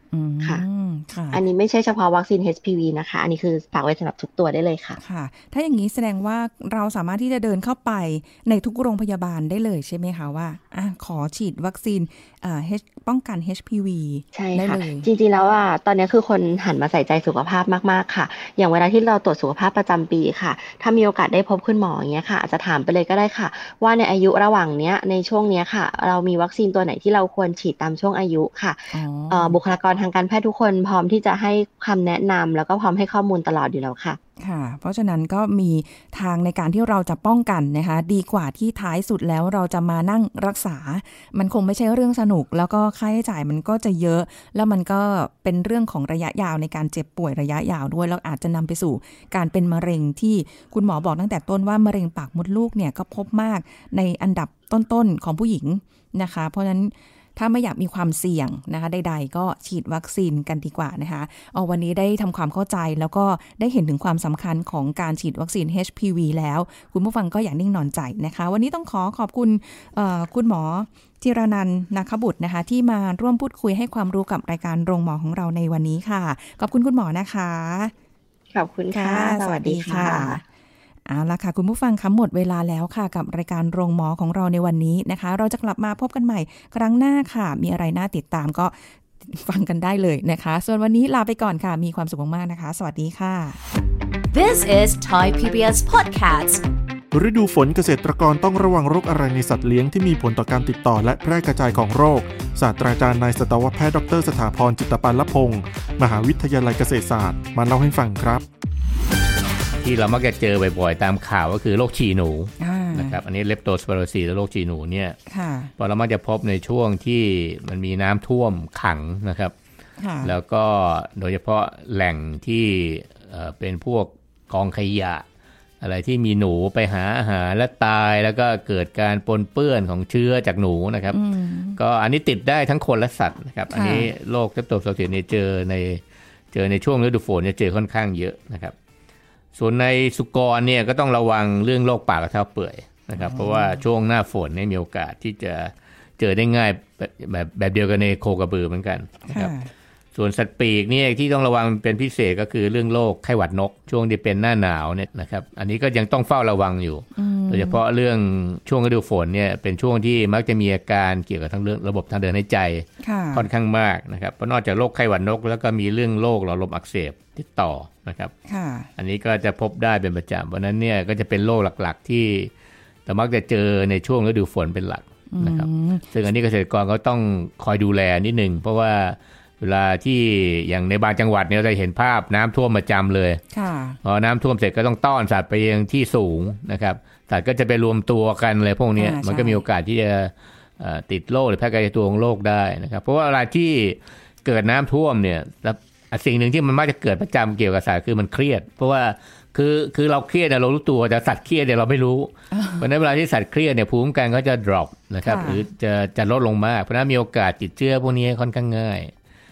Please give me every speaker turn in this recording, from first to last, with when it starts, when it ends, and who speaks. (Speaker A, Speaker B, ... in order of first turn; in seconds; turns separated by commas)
Speaker A: 0.1-1.4, Speaker B: 1.3-5.0, Speaker A: 5.0-15.1, Speaker B: 14.3-34.2, Speaker A: 28.9-29.6, Speaker A: 34.4-77.9, Speaker B: 78.5-80.4, Speaker A: 78.9-80.4, Speaker A: 81.1-93.6, Speaker C: 94.3-96.6, Speaker D: 97.1-108.4, Speaker E: 109.8-115.2, Speaker A: 112.6-113.2, Speaker A: 115.3-115.7, Speaker E: 115.8-119.5, Speaker A: 120.0-120.3, Speaker E: 120.2-125.2, Speaker E: 125.8-131.2, Speaker A: 131.1-131.8, Speaker E: 131.8-138.7, Speaker A: 133.7-134.1, Speaker E: 139.6-149.5, Speaker A: 143.1-143.8, Speaker A: 149.3-149.7, Speaker E: 150.1-168.3, Speaker A: 157.2-157.8, Speaker A: 163.0-163.5, Speaker A: 168.4-168.9, Speaker E: 169.0-172.5, Speaker E: 173.1-183.4, Speaker A: 175.3-176.1, Speaker A: 183.5-184.0, Speaker E: 184.0-209.1, Speaker A: 189.0-189.6, Speaker A: 202.5-202.9, Speaker A: 205.2-205.6